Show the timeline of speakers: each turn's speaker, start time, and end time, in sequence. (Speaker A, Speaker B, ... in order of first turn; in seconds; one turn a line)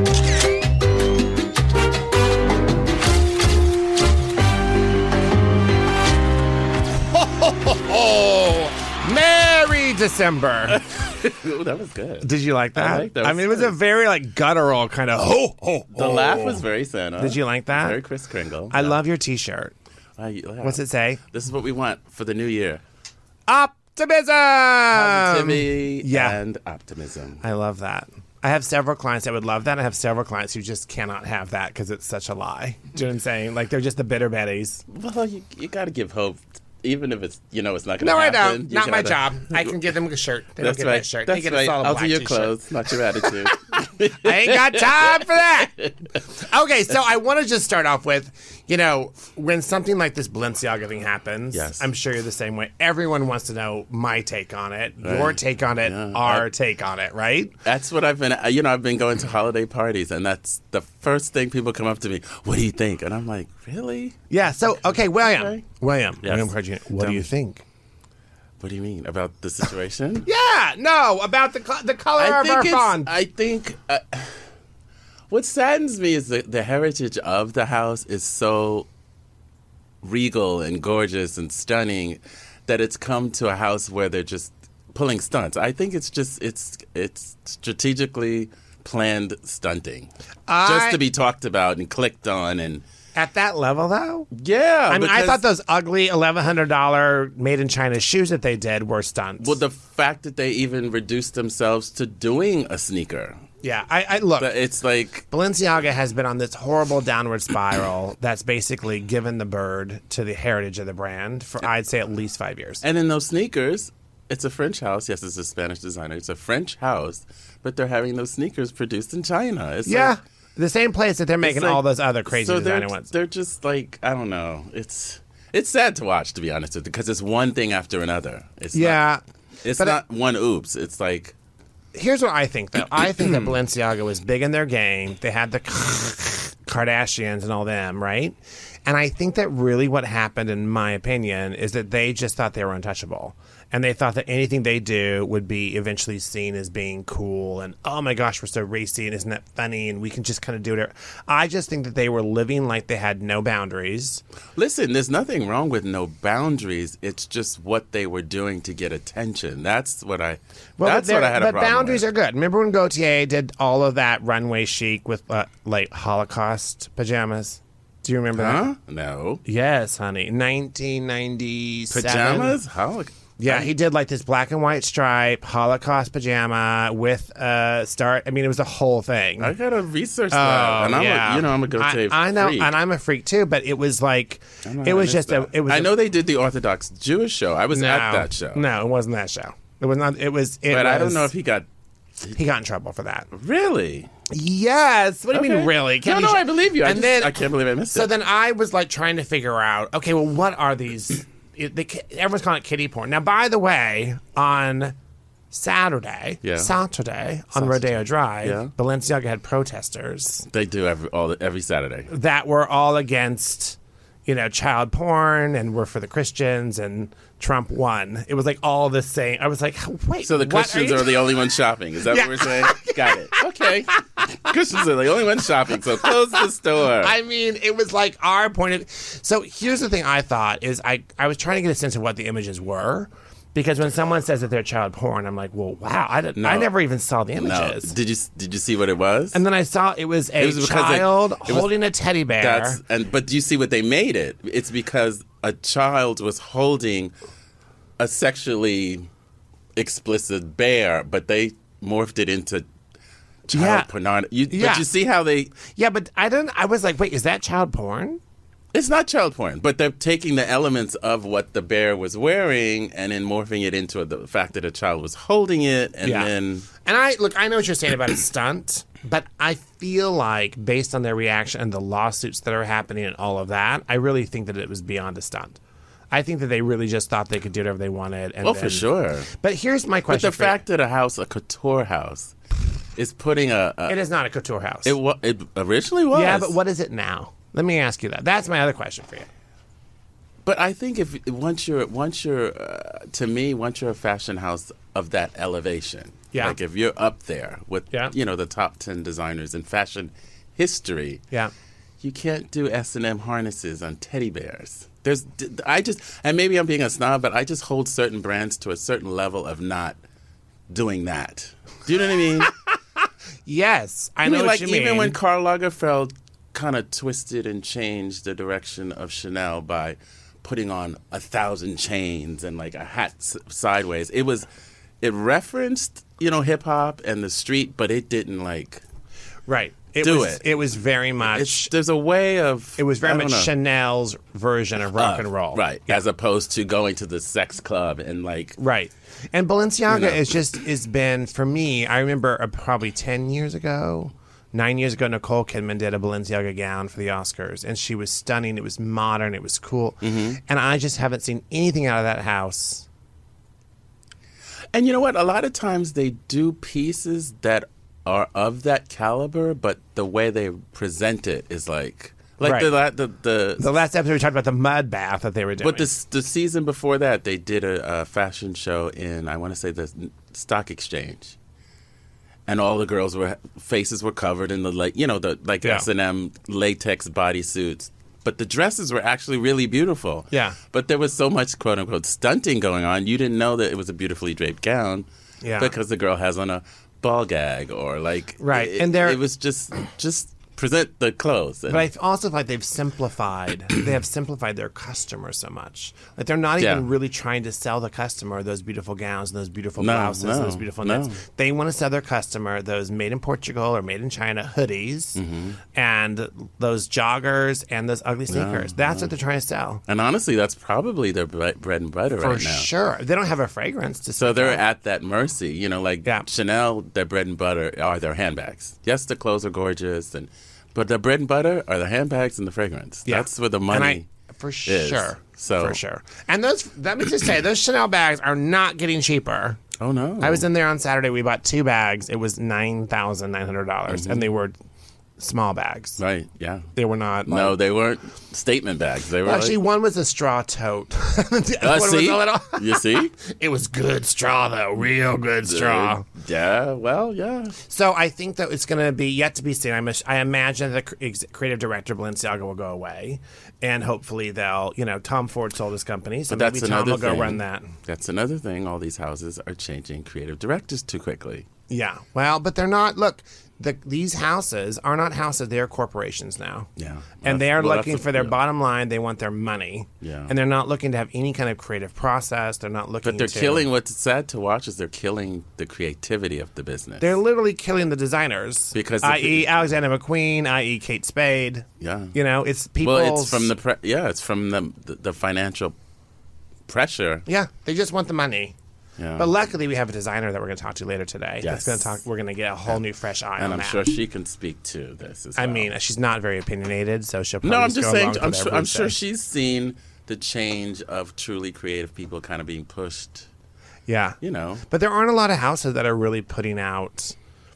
Speaker A: 7.1-10.8
Speaker B: 10.7-13.7
Speaker A: 12.2-16.6
Speaker B: 15.9-19.0
Speaker A: 17.2-18.0
Speaker A: 18.7-19.8
Speaker B: 20.2-20.8
Speaker A: 20.6-21.2
Speaker B: 21.3-22.8
Speaker A: 23.5-26.4
Speaker B: 24.9-27.4
Speaker A: 27.4-34.9
Speaker B: 34.9-39.8
Speaker A: 38.0-42.6
Speaker B: 40.6-45.9
Speaker A: 44.0-57.6
Speaker B: 51.5-51.9
Speaker B: 55.0-56.5
Speaker B: 57.6-64.2
Speaker A: 64.3-67.6
Speaker B: 64.8-65.7
Speaker B: 66.2-67.3
Speaker B: 68.6-70.3
Speaker A: 70.3-73.1
Speaker B: 72.2-74.4
Speaker B: 75.3-78.9
Speaker B: 80.0-90.1
Speaker A: 90.5-91.0
Speaker B: 90.6-92.8
Speaker A: 93.2-94.3
Speaker B: 94.3-95.4
Speaker A: 94.9-99.6
Speaker B: 99.4-103.4
Speaker A: 103.6-104.5
Speaker B: 104.4-105.3
Speaker A: 105.3-112.8
Speaker B: 112.8-120.2
Speaker A: 119.9-123.1
Speaker B: 121.4-129.0
Speaker A: 128.7-129.2
Speaker B: 129.6-131.3
Speaker A: 131.9-154.2
Speaker B: 132.9-133.5
Speaker B: 154.6-162.1
Speaker A: 160.8-168.7
Speaker B: 168.3-169.4
Speaker A: 169.4-172.6
Speaker B: 171.9-173.7
Speaker A: 173.4-179.6
Speaker B: 179.4-182.7
Speaker A: 180.3-185.9
Speaker B: 184.6-188.6
Speaker A: 187.7-191.3
Speaker B: 190.7-191.7
Speaker A: 192.3-193.3
Speaker B: 193.3-194.1
Speaker A: 194.3-197.4
Speaker B: 195.3-198.1
Speaker A: 197.9-204.9
Speaker A: 205.5-210.5
Speaker B: 206.4-206.7
Speaker B: 207.5-208.7
Speaker B: 210.5-212.1
Speaker A: 212.1-221.3
Speaker B: 220.2-227.2
Speaker A: 222.1-223.4
Speaker A: 227.0-237.9
Speaker B: 236.4-236.7
Speaker B: 237.4-239.4
Speaker A: 239.3-242.8
Speaker B: 240.4-241.8
Speaker B: 242.4-247.1
Speaker B: 248.0-249.1
Speaker B: 249.8-252.7
Speaker B: 253.5-255.5
Speaker A: 253.5-253.9
Speaker A: 254.5-254.9
Speaker A: 255.6-258.2
Speaker B: 258.7-266.7
Speaker A: 266.0-266.3
Speaker A: 266.9-275.6
Speaker A: 276.1-280.6
Speaker B: 278.4-279.3
Speaker B: 280.1-282.3
Speaker B: 283.0-284.0
Speaker A: 283.9-284.9
Speaker B: 284.9-286.6
Speaker A: 286.1-289.3
Speaker B: 290.4-301.2
Speaker B: 302.0-310.0
Speaker B: 310.7-312.5
Speaker A: 312.4-312.7
Speaker A: 313.5-315.2
Speaker B: 314.2-324.5
Speaker B: 325.0-328.8
Speaker A: 329.5-331.7
Speaker B: 330.0-330.4
Speaker B: 331.2-333.5
Speaker A: 332.8-336.0
Speaker B: 334.9-338.6
Speaker A: 338.6-352.9
Speaker B: 339.9-340.2
Speaker B: 350.0-350.4
Speaker B: 354.7-363.7
Speaker A: 362.4-362.7
Speaker A: 363.6-365.9
Speaker B: 365.6-371.4
Speaker B: 372.5-385.1
Speaker A: 380.3-380.6
Speaker A: 385.4-385.7
Speaker B: 385.6-391.9
Speaker A: 388.4-389.2
Speaker A: 391.7-405.2
Speaker B: 396.6-396.9
Speaker B: 399.8-401.2
Speaker B: 405.2-405.6
Speaker A: 405.7-409.8
Speaker B: 408.3-409.1
Speaker B: 409.9-412.7
Speaker A: 412.2-414.6
Speaker B: 414.2-424.1
Speaker A: 423.1-429.6
Speaker B: 424.7-425.8
Speaker B: 429.8-430.4
Speaker A: 430.2-434.6
Speaker B: 433.9-434.2
Speaker A: 435.2-436.0
Speaker B: 436.0-436.7
Speaker A: 436.8-437.6
Speaker B: 437.3-439.6
Speaker A: 439.2-446.1
Speaker B: 441.6-443.1
Speaker B: 445.5-447.6
Speaker A: 447.7-457.7
Speaker B: 456.3-461.5
Speaker A: 461.7-466.7
Speaker B: 466.8-468.4
Speaker A: 467.2-473.7
Speaker B: 470.0-470.3
Speaker B: 473.0-477.2
Speaker A: 477.0-483.5
Speaker B: 478.7-479.5
Speaker B: 481.8-482.1
Speaker B: 482.8-485.8
Speaker B: 486.7-487.3
Speaker A: 487.3-488.6
Speaker B: 489.0-489.3
Speaker A: 489.2-493.8
Speaker B: 491.4-492.0
Speaker B: 493.4-495.7
Speaker A: 495.4-498.9
Speaker B: 497.4-503.3
Speaker A: 503.9-507.2
Speaker B: 504.2-504.6